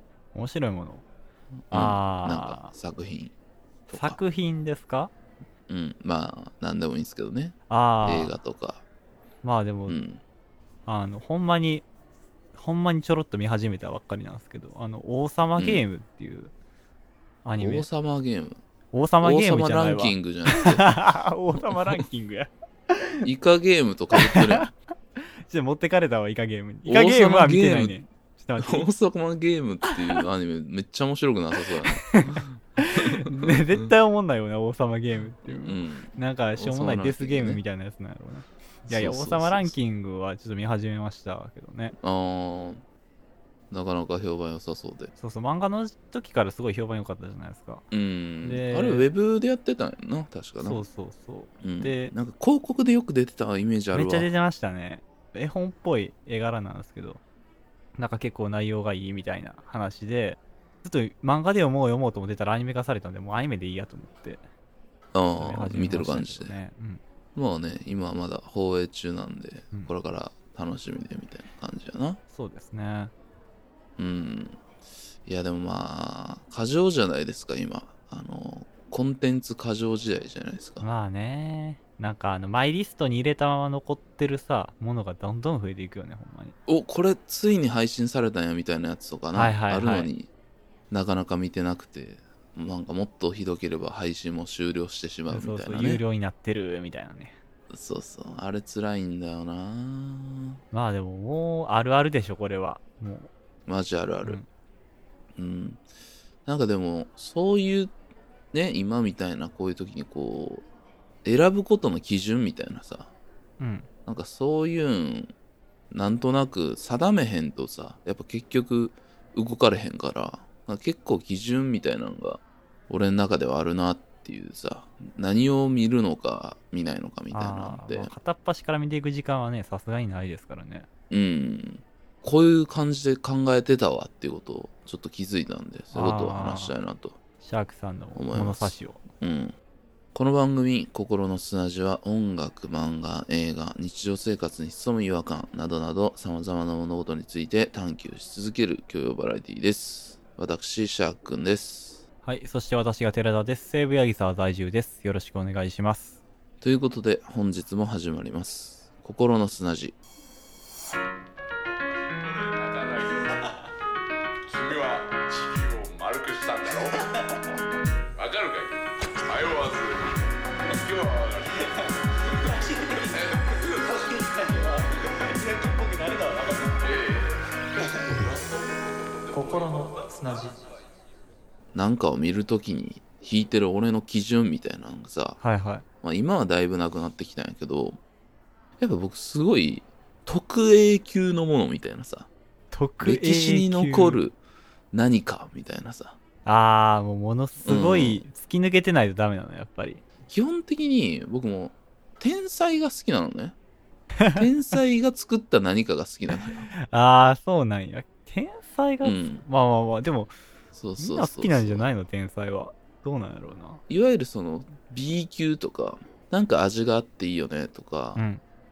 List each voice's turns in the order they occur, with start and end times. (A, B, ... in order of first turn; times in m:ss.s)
0:00.3-0:01.0 A
0:01.7-0:03.3 B
0:01.7-0:02.7 A
0:03.9-0:04.2 B
0:03.9-0:05.1 A
0:05.7-0:08.8 B
0:07.7-0:08.3 A
0:09.4-0:10.0 A
0:09.9-0:10.2 B
0:10.8-0:11.9 A
0:12.5-0:16.5 A
0:15.6-0:15.8 B
0:17.4-0:17.8 A
0:17.6-0:18.6 B
0:18.9-0:23.2 A
0:19.2-0:21.0 B
0:21.6-0:22.0 B
0:23.2-0:24.7 B
0:24.1-0:28.9 A
0:26.8-0:28.0 B
0:28.6-0:33.9 B
0:32.1-0:41.9 A
0:35.4-0:37.6 B
0:38.8-0:39.8 B
0:42.0-0:42.8 B
0:43.7-0:45.1 B
0:45.2-0:47.8 A
0:47.9-0:50.8 B
0:48.4-0:49.1 A
0:50.6-0:52.1 A
0:51.6-0:54.3 B
0:53.9-0:57.2 A
0:58.0-1:04.4 A
1:05.1-1:06.5 B
1:05.4-1:07.0 A
1:07.3-1:12.2 B
1:12.3-1:13.1 A
1:14.0-1:14.6 B
1:15.2-1:20.9 B
1:20.8-1:26.5 A
1:26.6-1:30.3 B
1:29.3-1:30.1 A
1:30.9-1:36.0 B
1:35.3-1:37.3 A
1:37.7-1:40.6 B
1:40.7-1:43.3 A
1:43.7-1:44.4 B
1:45.4-1:45.8 B
1:46.4-1:47.9 B
1:48.5-1:50.6 B
1:51.2-1:53.1 B
1:53.6-1:53.9 A
1:54.0-1:55.3 B
1:55.9-2:08.1 B
2:07.3-2:10.9 A
2:11.1-2:17.2 B
2:15.9-2:16.7 A
2:17.4-2:19.0 A
2:18.1-2:19.6 B
2:20.1-2:32.0 B
2:32.2-2:36.2 A
2:36.6-2:39.9 B
2:42.2-2:43.5 C
2:43.2-2:43.5 A
2:44.4-2:47.1 C
2:48.1-2:54.0 C
2:51.5-2:56.9 A
2:56.7-2:59.9 C
2:57.8-2:58.3 A
2:59.3-3:00.5 A
3:01.7-3:05.4 B
3:05.4-3:05.8 A
3:06.0-3:08.0 B
3:08.8-3:12.3 B
3:12.7-3:14.2 A
3:13.0-3:14.4 B
3:14.9-3:16.2 B
3:16.4-3:20.0 A
3:17.6-3:18.2 B
3:20.3-3:23.6 B
3:24.2-3:24.5 A
3:24.3-3:26.7 B
3:26.7-3:30.3 A
3:29.0-3:29.4 B
3:30.7-3:31.9 B
3:31.0-3:33.8 A
3:33.9-3:38.2 B
3:38.2-3:38.4 A